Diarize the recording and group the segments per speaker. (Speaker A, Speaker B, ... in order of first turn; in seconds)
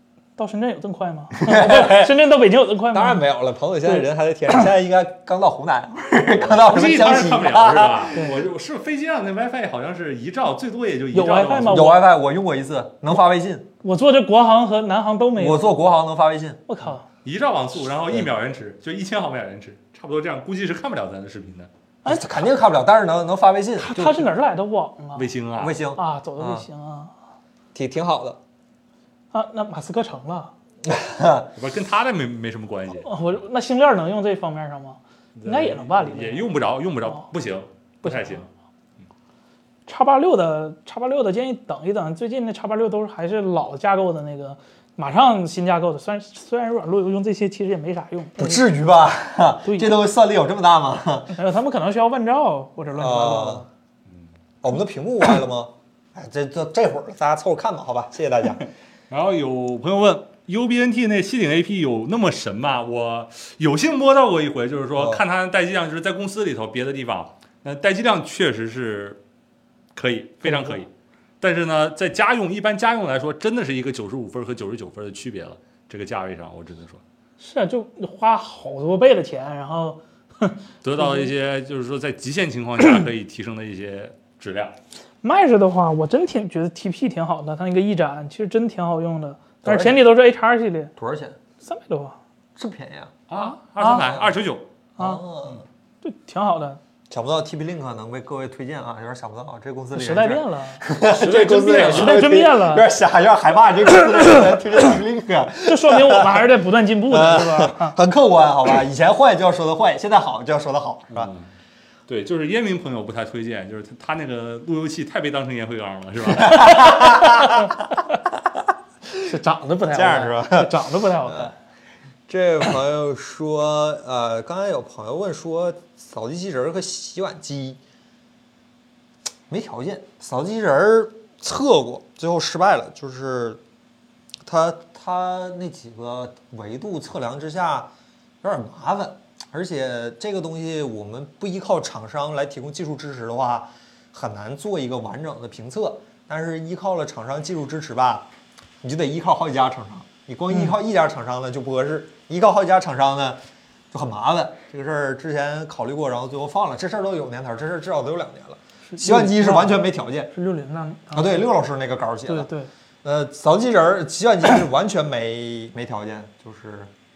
Speaker A: 0.4-3.2, 3.8-4.6, 8.1-8.4, 11.1-12.0, 13.8-15.7, 16.7-17.1, 22.0-22.5, 23.8-25.3, 26.0-27.1, 29.3-30.5, 33.0-36.5, 38.0-38.5, 39.9-48.6, 49.6-49.9, 51.3-53.7, 70.4-70.8, 77.4-81.3, 85.2-90.9, 91.6-92.2, 93.3-94.1, 96.0-96.8, 99.9-100.8, 101.5-102.9, 105.7-108.0, 116.4-118.1, 119.3-121.5, 158.9-161.5, 162.3-162.7
Speaker B: 1.3-2.2, 2.9-8.2, 11.5-13.7, 15.4-16.6, 22.1-24.2, 25.6-26.7, 27.7-28.4, 30.8-31.5, 48.4-51.3, 52.9-53.6, 54.6-58.6, 65.0-65.2, 89.6-90.1, 91.0-91.4, 92.6-93.1, 94.0-94.3, 95.0-95.7, 97.1-106.5, 107.1-111.3, 116.4-117.9, 119.9-120.7, 122.3-127.8, 129.5-133.6, 134.4-137.9, 138.4-148.2, 148.8-153.4, 153.9-160.3, 161.1-162.5, 163.0-166.9
Speaker C: 6.5-11.9, 17.2-21.7, 25.2-25.8, 31.6-33.1, 35.4-38.5, 59.1-69.2, 70.0-70.9, 71.4-77.0, 80.8-84.8, 93.3-94.7, 101.1-102.2, 111.1-111.5, 112.1-116.8